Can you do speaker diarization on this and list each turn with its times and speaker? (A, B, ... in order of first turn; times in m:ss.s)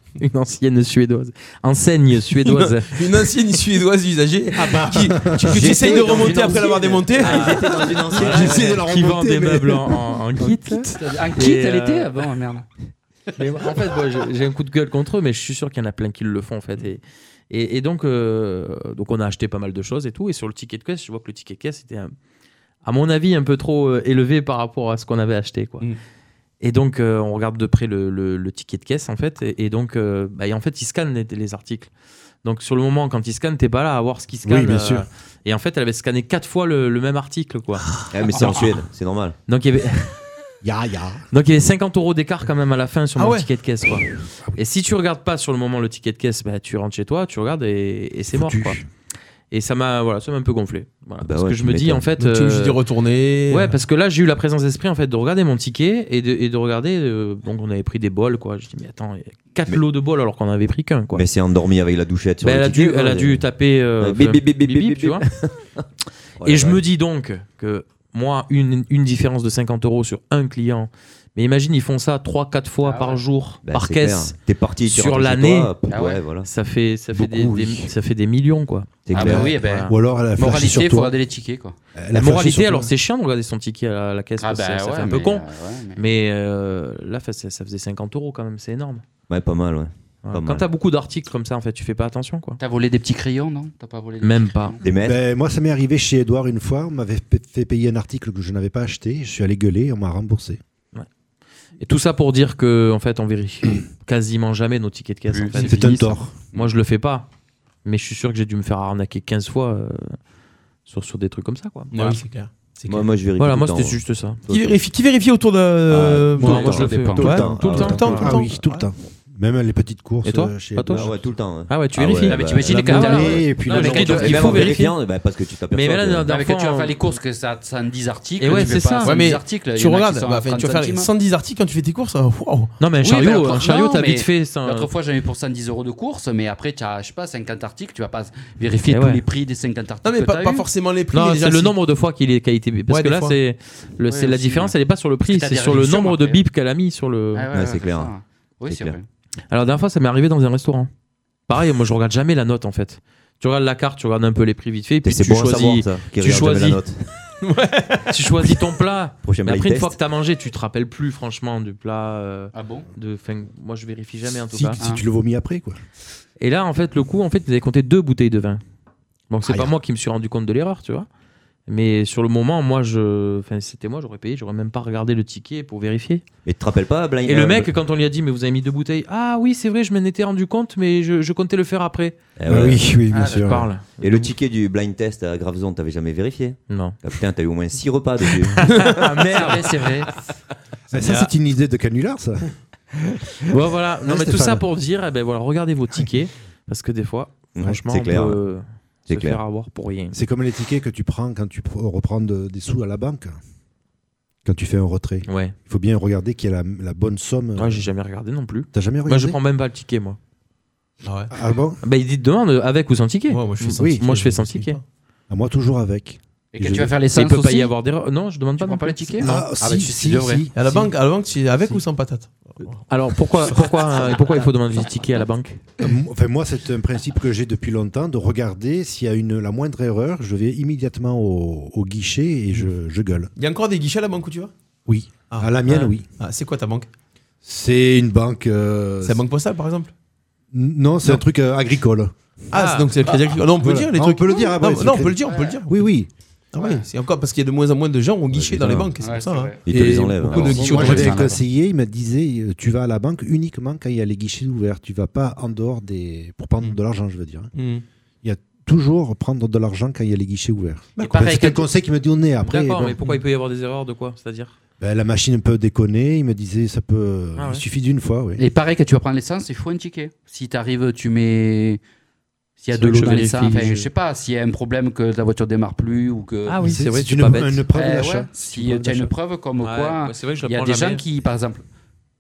0:00.2-0:03.1 A
0:02.4-0:07.6 B
0:05.3-0:05.8 C
0:05.4-0:09.1 D
0:05.7-0:07.5 E
0:08.1-0:12.2 A
0:08.1-0:08.8 B
0:08.5-0:09.8 C
0:10.4-0:10.8 C
0:11.0-0:12.6 E
0:13.4-0:22.1 A
0:22.8-0:25.9 A
0:26.6-0:31.9 A
0:32.4-0:37.9 A
0:34.4-0:35.0 C
0:38.1-0:39.4 D
0:39.5-0:40.2 A
0:40.6-0:41.2 C
0:41.3-0:48.8 A
0:43.2-0:43.5 B
0:48.3-0:48.8 C
0:49.5-0:52.8 A
0:51.2-0:52.1 D
0:52.2-0:53.8 B
0:53.5-1:01.2 A
1:01.1-1:03.4 D
1:02.4-1:05.2 A
1:04.0-1:05.8 D
1:06.4-1:06.8 D
1:06.4-1:15.7 A
1:12.8-1:13.2 E
1:13.6-1:16.5 D
1:15.9-1:16.2 E
1:16.4-1:19.9 A
1:17.1-1:17.9 C
1:19.0-1:19.5 D
1:19.1-1:21.8 E
1:19.1-1:21.1 C
1:22.0-1:22.9 C
1:22.1-1:29.0 A
1:24.4-1:26.0 E
1:29.3-1:30.7 D
1:30.2-1:32.6 A
1:32.6-1:34.8 E
1:34.2-1:34.8 A
1:34.8-1:35.2 D
1:35.0-1:40.6 C
1:41.8-1:47.3 A
1:45.3-1:45.8 E
1:45.5-1:46.3 C
1:47.8-1:50.2 A
1:50.9-1:52.2 A
1:51.9-1:53.1 B
1:52.9-1:54.8 D
1:53.4-1:54.4 A
1:54.5-1:58.5 B
1:55.9-1:58.6 D
1:56.4-1:58.3 A
1:56.5-1:57.5 E
1:57.6-2:01.2 C
2:00.2-2:01.1 A
2:00.9-2:02.8 D
2:01.7-2:05.0 A
2:02.3-2:04.7 E
2:02.8-2:04.8 C
2:03.7-2:06.3 D
2:05.7-2:07.1 A
2:06.3-2:11.1 E
2:08.4-2:09.2 A
2:08.6-2:12.7 B
2:12.8-2:14.9 A
2:13.0-2:20.6 E
2:18.9-2:19.2 A
2:20.0-2:21.8 B
2:21.1-2:27.5 A
2:22.9-2:23.4 B
2:24.1-2:24.7 E
2:25.3-2:26.4 E
2:27.3-2:29.0 E
2:27.5-2:28.1 D
2:28.7-2:29.0 D
2:29.5-2:30.9 A
2:31.5-2:36.8 A
2:35.0-2:37.0 D
2:37.4-2:38.5 B
2:38.1-2:44.8 A
2:39.2-2:39.9 D
2:42.5-2:42.9 E
2:44.5-2:45.8 C
2:44.8-2:45.0 E
2:46.4-2:48.6 A
2:49.3-2:51.1 A
2:51.7-2:56.2 A
2:56.4-2:57.7 D
2:57.3-3:02.2 A
3:02.4-3:02.8 D
3:02.5-3:03.7 C
3:03.1-3:03.4 E
3:03.3-3:04.3 A
3:04.0-3:09.6 D
3:06.7-3:07.0 A
3:08.6-3:09.8 A
3:09.3-3:10.1 E
3:10.9-3:12.4 C
3:11.0-3:11.3 A
3:13.4-3:20.2 A
3:14.0-3:14.6 C
3:17.6-3:18.4 D
3:19.1-3:19.4 D
3:20.1-3:23.4 C
3:24.4-3:27.9 C
3:25.3-3:25.6 A
3:27.6-3:30.2 A
3:28.7-3:29.4 C
3:31.0-3:31.3 B
3:31.3-3:31.8 C
3:31.8-3:34.8 A
3:33.3-3:34.8 B
3:33.8-3:34.0 C
3:35.3-3:36.9 C
3:36.5-3:37.7 E
3:37.1-3:39.5 A
3:38.6-3:40.7 E
3:39.2-3:40.6 C
3:40.5-3:42.8 B
3:42.9-3:45.6 A
3:45.8-3:53.3 C
3:53.4-3:54.5 B
3:54.9-3:56.1 C
3:56.2-3:56.9 B
3:57.4-3:59.2 C
3:59.0-3:59.9 B
4:00.5-4:02.1 C
4:02.5-4:05.9 B
4:02.5-4:02.9 A
4:03.6-4:05.2 C
4:05.2-4:05.6 E
4:05.7-4:06.1 C
4:06.5-4:11.1 B
4:06.6-4:06.9 E
4:08.3-4:08.9 D
4:09.0-4:09.6 E
4:09.6-4:11.1 D
4:10.2-4:11.4 E
4:10.4-4:17.5 C
4:17.6-4:17.8 B
4:18.2-4:23.0 C
4:21.0-4:21.6 E
4:22.4-4:24.5 A
4:24.8-4:28.5 C
4:27.4-4:27.6 A
4:28.4-4:31.8 E
4:32.6-4:36.6 E
4:32.7-4:33.8 A
4:36.5-4:37.6 A
4:36.6-4:39.1 C
4:37.8-4:41.6 E
4:39.6-4:41.0 A